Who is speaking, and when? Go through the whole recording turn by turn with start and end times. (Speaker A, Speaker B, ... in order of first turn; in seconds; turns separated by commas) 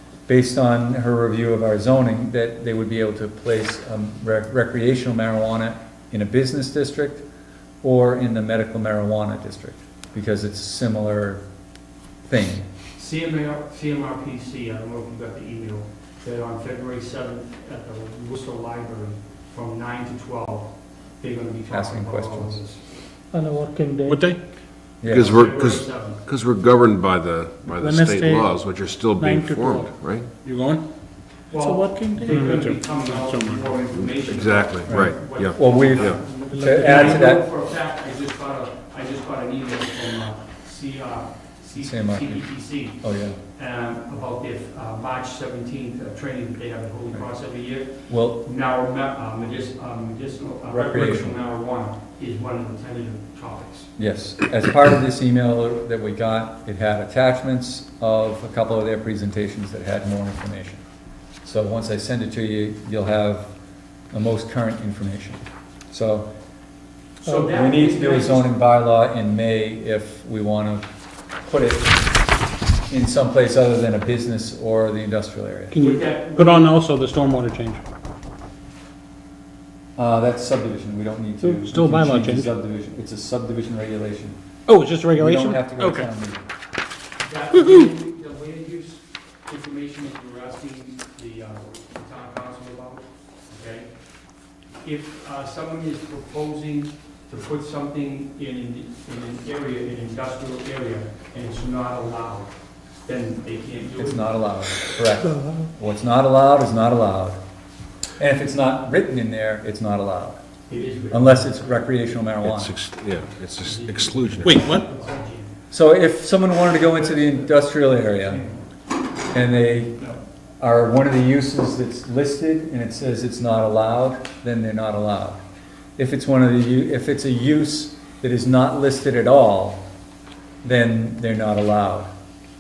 Speaker A: 0.3-7.2, Speaker A: 7.8-11.4, Speaker A: 12.2-12.7, Speaker B: 12.9-22.8, Speaker A: 21.7-22.6, Speaker C: 23.3-24.2, Speaker D: 24.1-24.4, Speaker A: 25.0-25.3, Speaker E: 25.1-30.3, Speaker B: 25.2-26.2, Speaker C: 27.8-28.5, Speaker C: 29.1-29.9, Speaker D: 30.4-30.8, Speaker B: 31.5-43.0, Speaker C: 31.5-32.6, Speaker D: 32.2-33.8, Speaker E: 33.9-36.2, Speaker A: 34.9-37.4, Speaker C: 36.4-37.3, Speaker A: 41.8-42.4, Speaker A: 43.0-43.4, Speaker B: 43.5-53.9, Speaker A: 48.1-48.4, Speaker A: 50.7-51.4, Speaker A: 54.0-60.8, Speaker A: 61.4-63.5, Speaker A: 64.1-66.3, Speaker B: 67.2-68.5, Speaker A: 67.4-70.9, Speaker A: 71.4-72.0, Speaker A: 72.9-75.7, Speaker D: 75.7-77.8, Speaker B: 75.8-76.7, Speaker A: 80.0-84.4, Speaker D: 81.4-82.5, Speaker D: 84.7-86.1, Speaker A: 85.1-86.4, Speaker B: 87.2-93.9, Speaker D: 87.5-87.9, Speaker B: 94.8-102.5, Speaker B: 103.0-104.3, Speaker A: 104.0-107.4, Speaker A: 108.2-110.4, Speaker B: 110.7-111.5, Speaker A: 111.1-112.7, Speaker E: 112.4-114.6, Speaker B: 113.6-115.5, Speaker D: 114.4-114.8, Speaker A: 115.7-118.4, Speaker B: 117.1-117.4, Speaker A: 119.3-119.9, Speaker A: 120.6-125.4, Speaker A: 126.0-129.8, Speaker A: 130.6-132.1